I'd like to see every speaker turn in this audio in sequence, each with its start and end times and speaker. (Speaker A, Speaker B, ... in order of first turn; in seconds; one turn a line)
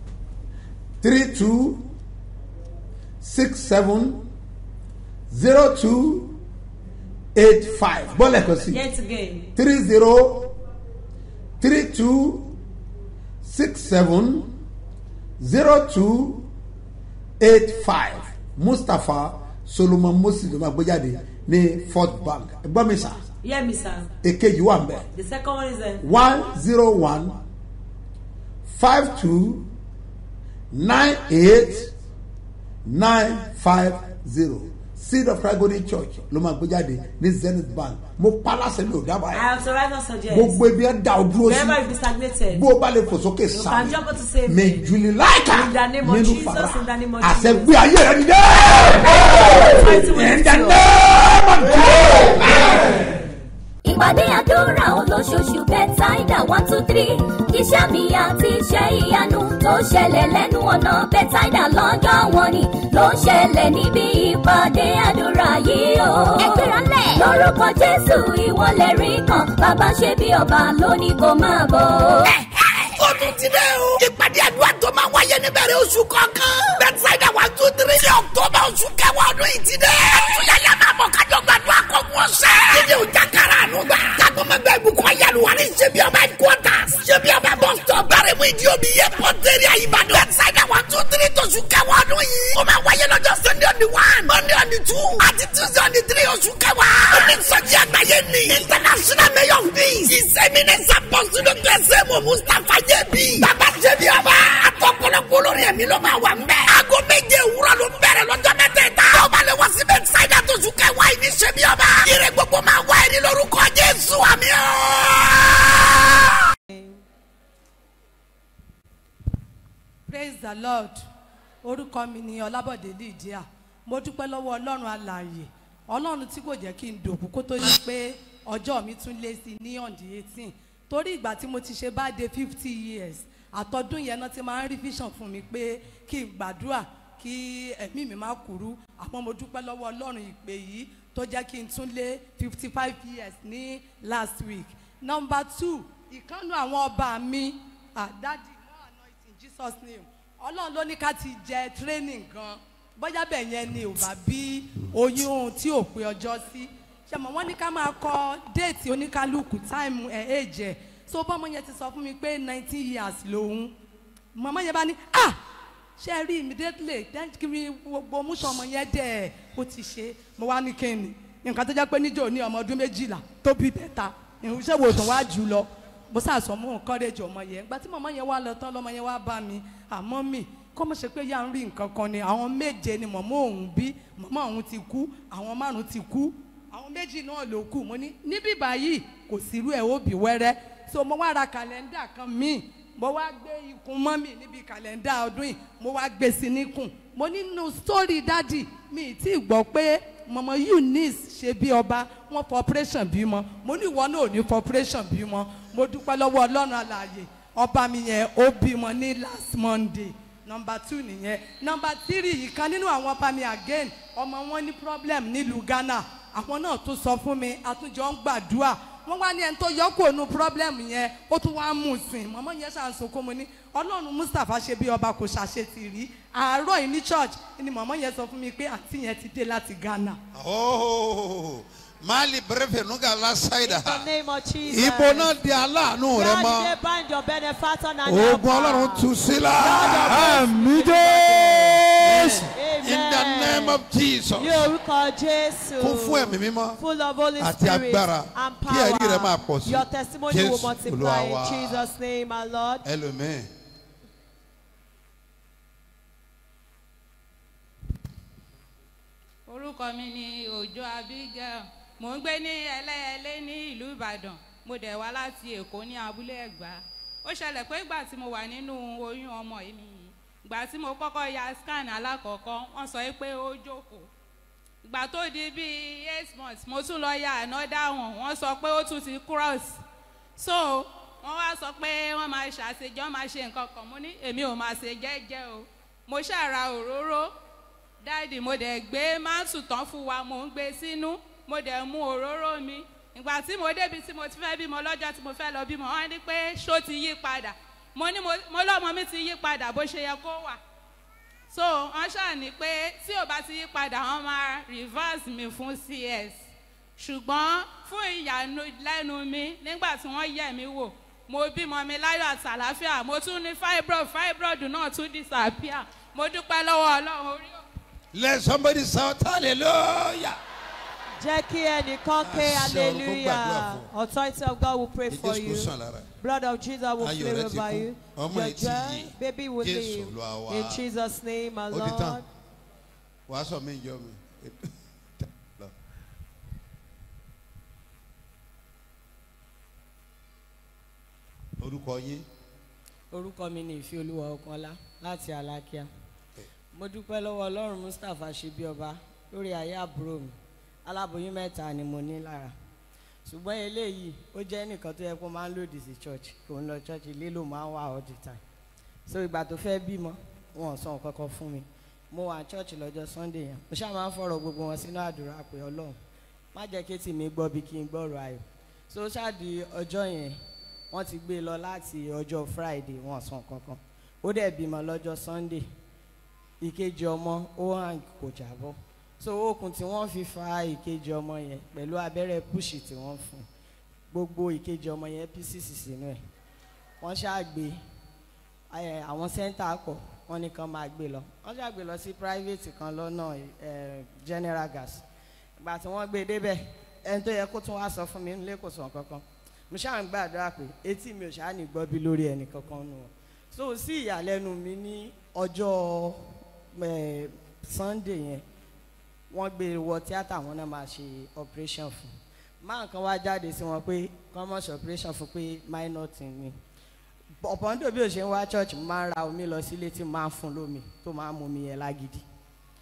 Speaker A: 1.0-1.9
Speaker A: 3.2-4.2
Speaker A: 5.3-6.4
Speaker A: 7.3-8.8
Speaker B: 8.6-9.5
Speaker A: 9.6-10.5
Speaker A: 11.6-12.6
Speaker A: 13.4-14.5
Speaker A: 15.4-16.5
Speaker A: 17.4-23.2
Speaker B: 23.4-24.1
Speaker A: 24.2-25.1
Speaker B: 25.1-26.0
Speaker A: 26.0-27.4
Speaker A: 28.6-29.7
Speaker A: 30.7-31.9
Speaker A: 32.8-39.5
Speaker B: 39.3-40.6
Speaker A: 40.3-41.9
Speaker B: 41.4-42.6
Speaker A: 42.5-52.7
Speaker B: 43.5-44.9
Speaker B: 45.5-47.7
Speaker B: 49.2-50.8
Speaker C: 53.8-72.3
Speaker D: 72.3-116.3
Speaker E: 116.7-117.0
Speaker F: 120.1-121.0
Speaker F: 121.6-163.7
Speaker F: 164.3-165.4
Speaker F: 166.0-230.2
Speaker G: 230.3-234.1
Speaker E: 233.6-235.3
Speaker G: 234.6-236.7
Speaker E: 236.1-243.8
Speaker G: 238.1-244.7
Speaker E: 244.3-252.8
Speaker G: 245.8-246.8
Speaker G: 247.4-251.9
Speaker G: 252.8-253.5
Speaker H: 259.5-274.1
Speaker H: 274.8-279.8
Speaker H: 280.4-287.3
Speaker H: 288.0-300.6
Speaker H: 301.5-306.4
Speaker H: 307.0-317.6
Speaker G: 318.1-320.4
Speaker E: 321.2-332.2
Speaker G: 322.2-323.9
Speaker G: 325.1-326.1
Speaker G: 327.0-330.8
Speaker G: 331.7-332.2
Speaker G: 333.3-334.6
Speaker G: 335.2-335.7
Speaker G: 341.6-342.2
Speaker I: 343.1-345.9
Speaker I: 346.8-350.3
Speaker I: 350.9-352.5
Speaker I: 353.2-358.4
Speaker I: 359.1-365.9
Speaker I: 366.5-370.4
Speaker I: 370.9-375.7
Speaker I: 376.6-383.4
Speaker I: 384.1-386.2
Speaker I: 387.0-387.8
Speaker I: 388.7-395.0
Speaker I: 395.6-406.2
Speaker I: 406.8-408.4
Speaker I: 409.3-412.1
Speaker I: 412.6-416.5
Speaker I: 417.4-422.2